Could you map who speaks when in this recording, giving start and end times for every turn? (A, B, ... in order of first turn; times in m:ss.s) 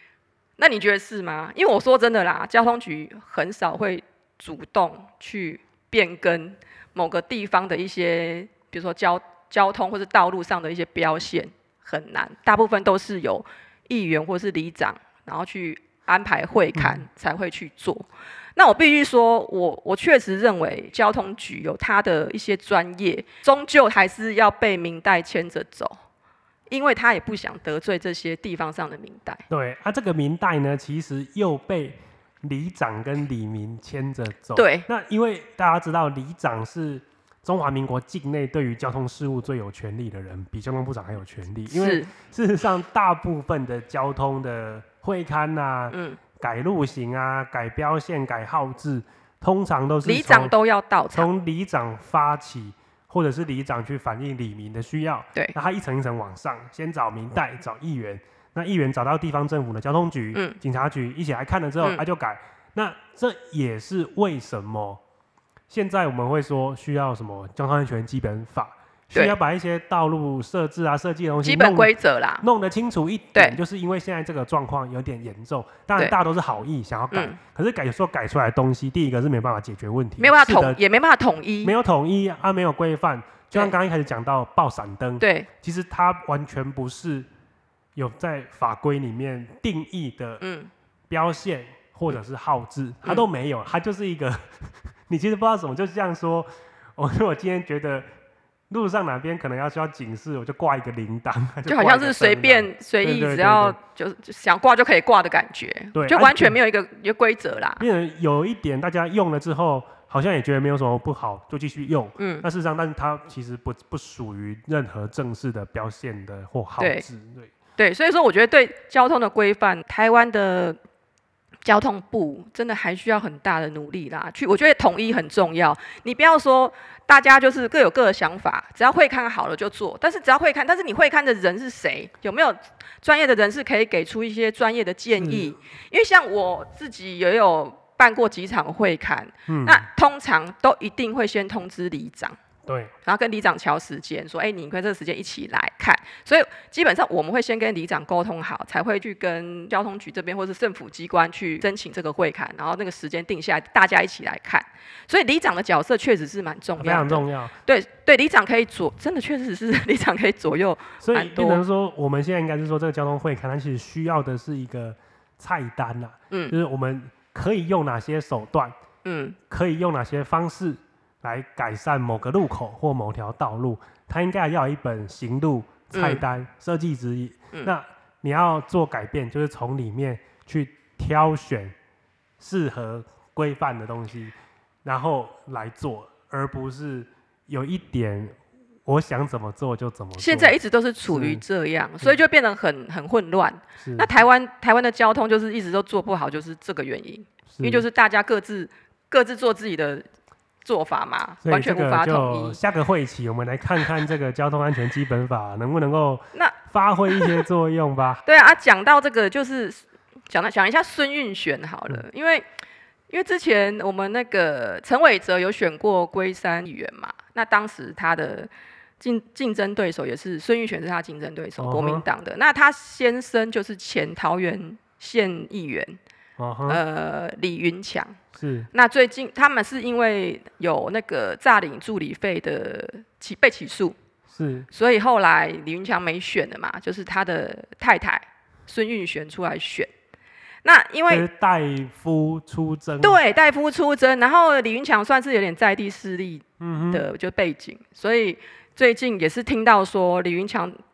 0:00.6-0:26.0 A
0:16.8-0:17.0 B
0:26.7-0:29.4 A
0:29.5-0:50.5 B
0:34.6-0:34.9 A
0:41.7-0:42.1 A
0:45.9-0:46.2 A
0:50.0-0:51.3 A
0:51.1-1:05.0 B
1:05.7-1:20.8 B
1:11.4-1:12.4 A
1:17.1-1:17.4 A
1:20.2-1:21.7 A
1:21.6-1:27.3 B
1:25.2-1:25.5 A
1:28.0-1:30.4 B
1:30.4-1:30.7 A
1:31.1-1:38.1 B
1:38.7-1:43.8 B
1:41.7-1:47.8 A
1:45.9-1:46.6 B
1:47.8-1:57.5 B
1:52.2-1:52.5 A
1:56.8-1:57.0 A
1:57.8-2:00.8 A
2:01.6-2:22.4 A
2:15.1-2:15.5 B
2:19.5-2:19.9 B
2:22.7-2:22.9 B
2:23.0-2:41.6 A
2:36.8-2:37.6 B
2:41.0-2:48.7 B
2:46.3-2:46.6 A
2:49.0-2:49.4 A
2:49.5-3:01.8 B
2:55.9-2:56.2 A
3:02.4-3:10.6 B
3:10.2-3:20.0 A
3:11.1-3:11.4 B
3:13.8-3:14.1 B
3:17.5-3:17.8 B
3:20.6-3:22.6 A
3:21.4-3:28.2 B
3:27.1-3:27.4 A
3:28.3-3:32.4 A
3:33.1-3:46.0 A
3:41.6-3:42.0 B
3:46.4-3:46.8 B
3:46.7-3:48.2 A
3:48.3-3:48.7 B
3:48.7-3:54.0 A
3:54.3-3:54.7 B
3:54.7-3:59.9 A
4:00.6-4:01.3 A
4:01.1-4:03.2 B
4:03.0-4:10.8 A
4:06.6-4:07.0 B